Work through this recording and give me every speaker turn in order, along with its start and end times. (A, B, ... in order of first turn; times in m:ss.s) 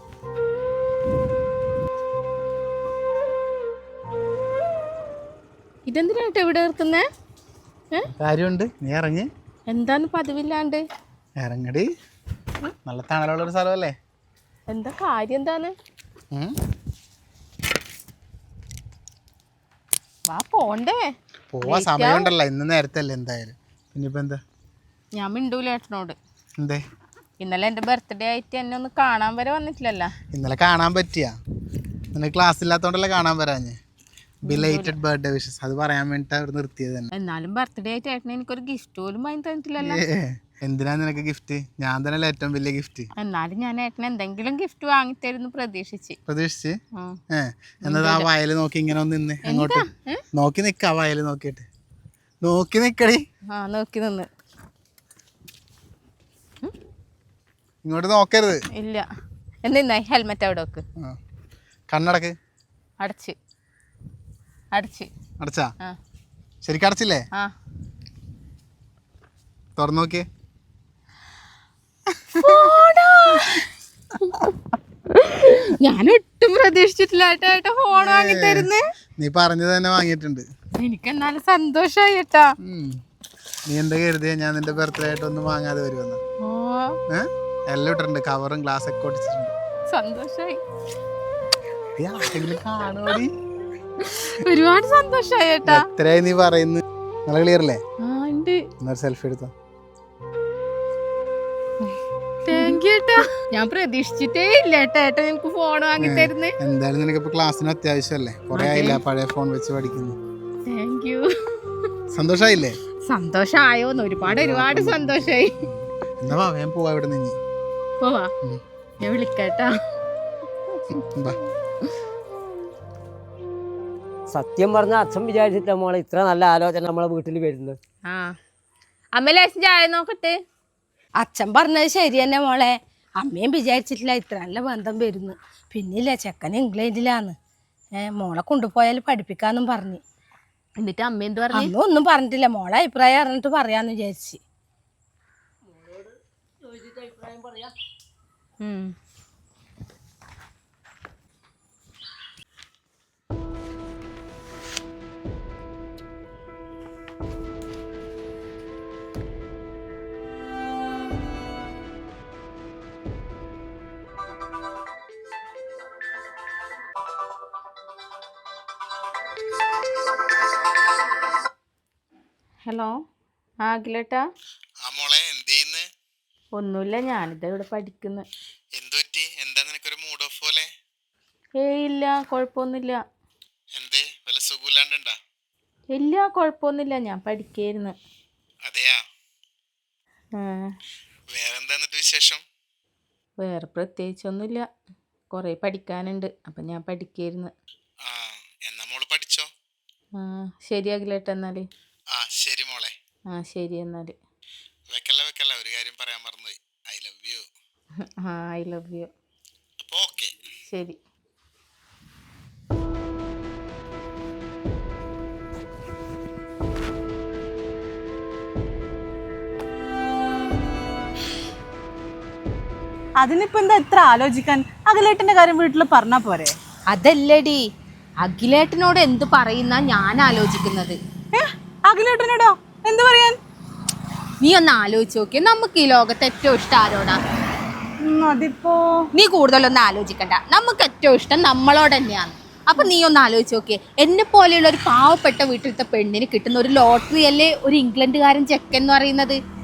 0:05.9-0:07.0 A
0:08.2-0:09.3 B
0:09.7-0:10.8 A
0:11.4-0:11.9 B
0:12.8-0:13.9 B
0:14.7-0:15.7 A
0:20.3-0:22.3 A
0:21.5-0:24.4 B
0:25.1-0:26.2 A
0:27.4-0:30.1 A
0:30.3-0:31.3 B
0:32.1-0:33.8 B
0:34.5-0:37.1 B
0:34.5-0:35.0 A
0:37.1-0:40.0 A
0:39.8-0:43.1 B
0:43.2-0:46.2 A
0:46.3-0:46.8 B
0:47.3-0:51.7 B
0:47.8-0:48.3 A
0:49.4-0:50.2 A
0:52.4-0:53.2 B
0:53.5-0:54.3 A
0:57.8-0:58.6 B
0:58.8-0:59.0 A
0:59.6-1:00.8 A
1:01.9-1:02.3 B
1:03.0-1:03.4 A
1:04.7-1:05.1 A
1:05.4-1:05.7 B
1:06.6-1:07.2 B
1:09.8-1:10.2 B
1:12.4-1:13.6 A
1:15.2-1:18.8 A
1:18.0-1:20.4 B
1:20.8-1:22.5 A
1:22.6-1:22.9 B
1:23.7-1:26.2 B
1:26.4-1:27.0 A
1:27.1-1:29.5 B
1:29.9-1:30.6 A
1:32.0-1:33.3 B
1:34.0-1:35.9 A
1:35.7-1:37.8 B
1:38.0-1:38.6 A
1:38.8-1:39.5 B
1:42.5-1:46.5 A
1:46.0-1:50.2 B
1:48.5-1:49.0 A
1:50.7-1:51.3 A
1:52.1-1:52.8 B
1:53.0-1:55.6 A
1:54.2-1:57.4 B
1:58.0-1:58.3 A
1:59.0-1:59.7 A
2:01.0-2:01.4 B
2:04.3-2:07.8 C
2:08.0-2:08.4 A
2:09.1-2:10.4 A
2:11.2-2:17.3 D
2:18.0-2:20.0 D
2:20.8-2:21.8 A
2:21.5-2:24.4 D
2:28.6-2:28.9 A
2:52.6-2:53.0 A
2:53.6-2:54.2 A
2:54.8-2:55.8 B
2:56.6-2:58.3 A
2:58.8-3:00.7 B
3:01.6-3:03.0 A
3:03.8-3:05.1 B
3:05.9-3:08.0 A
3:08.7-3:09.0 B
3:10.4-3:10.7 A
3:11.3-3:12.4 B
3:13.4-3:14.7 A
3:15.3-3:17.5 A
3:18.0-3:19.5 B
3:20.2-3:21.7 A
3:22.1-3:22.9 B
3:23.3-3:24.2 A
3:24.9-3:27.4 B
3:28.2-3:29.1 A
3:29.9-3:30.3 B
3:30.7-3:31.0 A
3:43.2-3:46.6 E
3:46.9-3:47.6 A
3:48.2-3:51.0 A
3:51.3-3:53.4 E
3:54.4-3:57.2 A
3:58.0-3:58.8 E
3:59.2-4:09.4 A